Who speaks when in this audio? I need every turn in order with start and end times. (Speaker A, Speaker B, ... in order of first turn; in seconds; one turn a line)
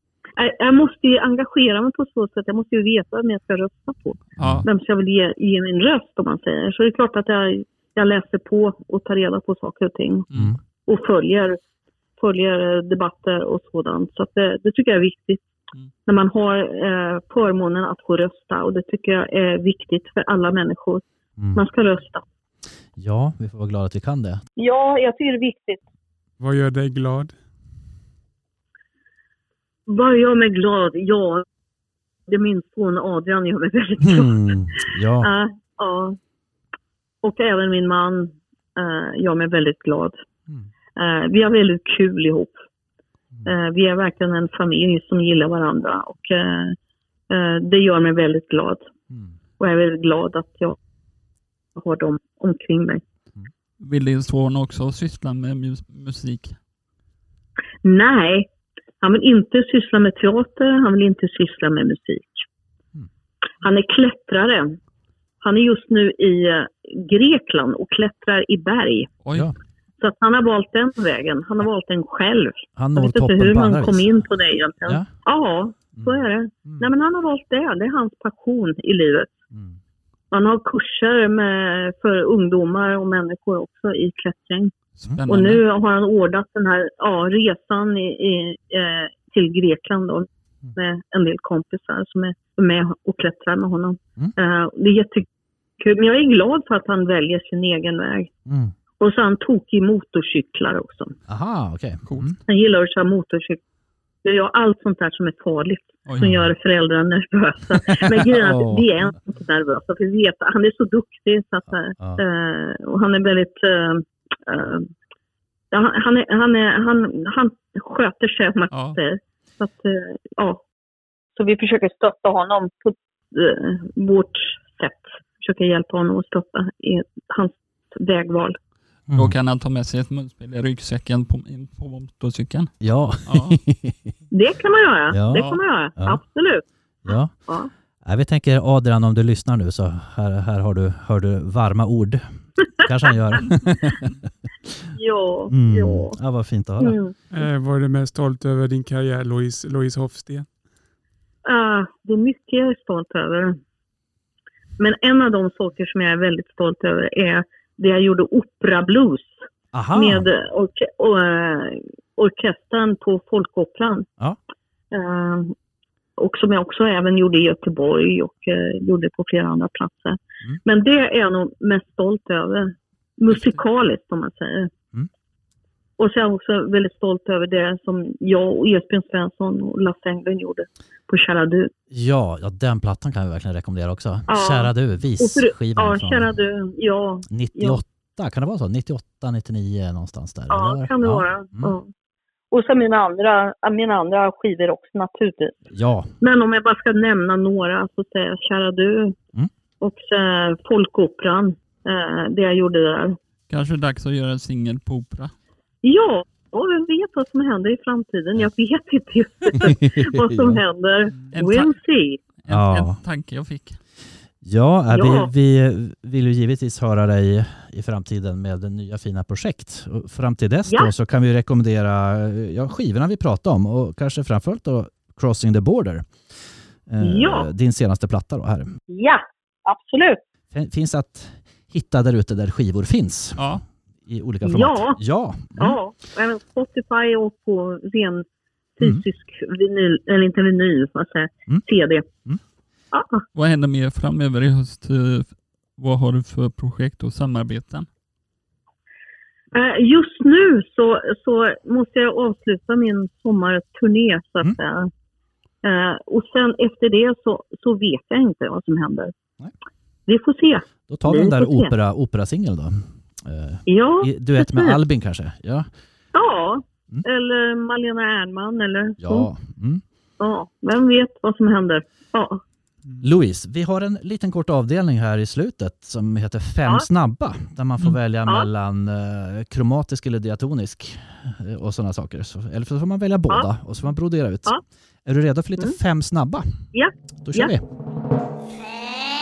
Speaker A: 0.4-10.3
Speaker B: 4.4-4.6
Speaker C: 4.4-4.7
Speaker B: 10.3-10.6
Speaker A: 10.9-11.6
Speaker A: 12.2-15.4
Speaker A: 16.1-21.0
Speaker A: 21.6-22.2
Speaker C: 23.0-24.4
Speaker A: 24.6-25.8
Speaker D: 26.4-27.3
Speaker A: 29.9-31.4
Speaker A: 32.3-36.2
Speaker C: 34.0-35.3
Speaker A: 37.2-40.2
Speaker A: 41.0-42.6
Speaker A: 43.5-46.8
Speaker A: 47.3-48.9
Speaker A: 49.6-50.8
Speaker A: 51.8-53.0
Speaker B: 53.8-56.6
Speaker A: 57.8-58.5
Speaker A: 59.0-62.5
Speaker A: 63.6-64.8
Speaker A: 65.4-69.1
Speaker B: 69.2-69.5
Speaker A: 70.0-79.3
Speaker C: 72.8-74.2
Speaker A: 80.3-84.7
Speaker B: 85.0-85.6
Speaker A: 85.3-95.3
Speaker A: 95.8-98.3
Speaker C: 98.5-98.7
Speaker A: 99.0-101.2
Speaker C: 101.3-102.4
Speaker B: 102.1-102.3
Speaker A: 102.5-103.6
Speaker A: 104.2-114.9
Speaker B: 106.1-106.3
Speaker C: 108.0-108.9
Speaker A: 115.7-120.6
Speaker B: 118.7-119.0
Speaker A: 121.4-128.6
Speaker C: 129.1-129.3
Speaker B: 129.1-132.7
Speaker C: 132.8-134.1
Speaker B: 133.3-133.6
Speaker A: 134.3-136.6
Speaker C: 135.1-136.2
Speaker B: 135.3-135.6
Speaker C: 137.1-137.3
Speaker C: 138.1-144.1
Speaker A: 144.9-146.2
Speaker C: 145.5-147.0
Speaker A: 146.8-147.1
Speaker D: 147.3-150.5
Speaker A: 151.4-153.6
Speaker A: 154.8-159.4
Speaker C: 159.7-160.3
Speaker A: 159.9-164.1
Speaker A: 164.9-165.6
Speaker A: 166.2-174.7
Speaker A: 176.0-181.7
Speaker C: 181.9-186.3
Speaker A: 184.3-187.8
Speaker C: 187.3-191.8
Speaker A: 190.5-191.9
Speaker A: 192.5-195.6
Speaker C: 195.7-196.1
Speaker A: 196.2-199.2
Speaker A: 199.8-203.2
Speaker B: 203.5-205.3
Speaker A: 205.8-212.2
Speaker C: 209.6-210.6
Speaker B: 211.3-211.7
Speaker B: 212.4-213.8
Speaker C: 212.5-213.0
Speaker C: 214.4-226.1
Speaker A: 214.9-215.3
Speaker C: 226.9-228.7
Speaker A: 227.0-227.5
Speaker A: 228.9-230.2
Speaker C: 230.5-233.5
Speaker B: 233.4-233.6
Speaker C: 234.1-235.8
Speaker A: 234.4-235.0
Speaker A: 235.6-238.2
Speaker A: 238.8-242.1
Speaker A: 242.9-243.2
Speaker B: 243.3-247.9
Speaker A: 249.5-254.9
Speaker A: 255.6-259.1
Speaker A: 260.1-261.7
Speaker C: 260.9-265.7
Speaker A: 263.7-264.8
Speaker A: 266.1-269.3
Speaker C: 269.0-269.8
Speaker A: 270.2-272.4
Speaker C: 273.0-286.5
Speaker A: 286.7-287.5
Speaker C: 287.2-287.6